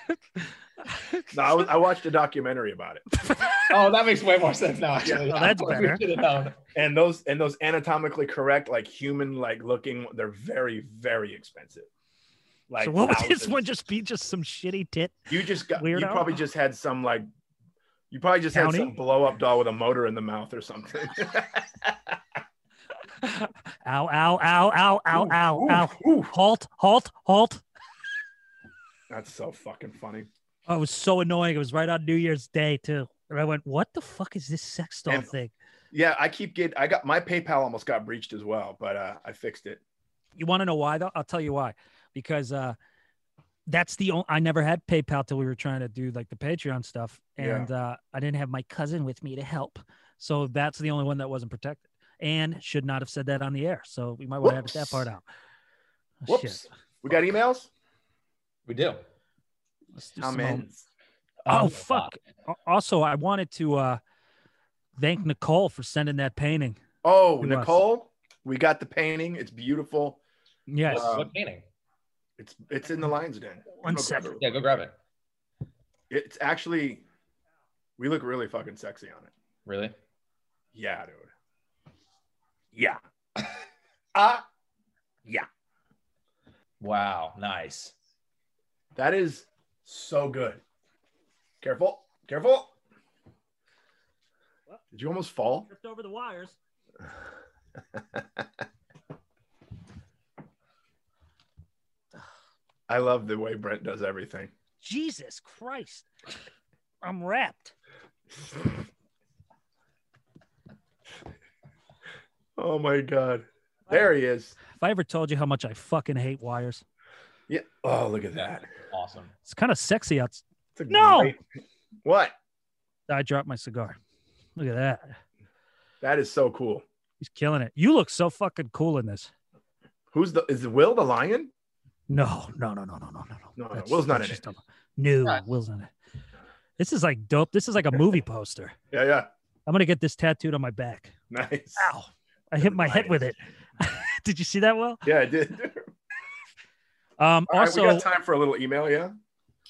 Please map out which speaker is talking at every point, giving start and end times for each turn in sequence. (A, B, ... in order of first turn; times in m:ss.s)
0:00.9-0:01.2 A
0:01.3-0:03.0 B
0:03.3-0:03.7 A
0:03.7-0:06.6 C
0:05.2-0:06.0 A
0:06.7-0:11.9 B
0:12.7-0:13.7 B
0:12.8-0:16.4 A
0:15.3-0:17.3 B
0:18.1-0:22.2 B
0:18.5-0:18.9 A
0:23.2-0:27.6 A
0:25.1-0:26.3 B
0:29.1-0:30.3 B
0:30.7-0:35.5 A
0:35.9-0:39.8 B
0:40.4-0:42.8 A
0:43.7-0:55.2 A
0:47.4-0:47.7 B
0:54.4-0:55.1 B
0:56.2-0:56.6 A
0:56.3-0:57.7 B
0:58.7-0:59.0 C
1:00.0-1:00.7 A
1:00.2-1:00.8 B
1:01.5-1:02.1 C
1:01.5-1:04.0 A
1:05.0-1:06.8 A
1:07.0-1:10.2 B
1:07.4-1:07.8 A
1:10.7-1:11.1 A
1:10.9-1:11.3 B
1:10.9-1:11.6 C
1:12.4-1:14.4 B
1:13.8-1:14.3 A
1:14.4-1:14.9 C
1:16.1-1:17.0 B
1:18.0-1:19.3 B
1:19.7-1:20.0 C
1:20.7-1:21.3 B
1:24.2-1:24.4 B
1:26.8-1:27.9 C
1:29.0-1:30.6 B
1:31.6-1:32.8 B
1:34.9-1:35.7 B
1:35.7-1:36.6 A
1:42.9-1:44.5 B
1:44.8-1:46.1 A
1:47.0-1:47.7 A
1:52.6-1:54.6 B
1:54.7-1:56.8 A
1:57.5-1:58.7 B
1:58.9-1:59.3 C
1:59.5-2:01.4 A
2:00.8-2:01.4 B
2:02.0-2:02.4 B
2:03.1-2:04.0 A
2:04.6-2:05.2 A
2:06.0-2:06.8 B
2:07.2-2:09.3 A
2:10.1-2:11.5 B
2:12.1-2:15.9 A
2:13.6-2:14.4 B
2:16.8-2:18.8 A
2:18.9-2:19.3 B
2:19.7-2:21.1 A
2:21.3-2:21.9 B
2:21.8-2:25.1 A
2:22.6-2:23.3 B
2:25.0-2:25.9 B
2:27.2-2:28.1 A
2:27.5-2:29.1 B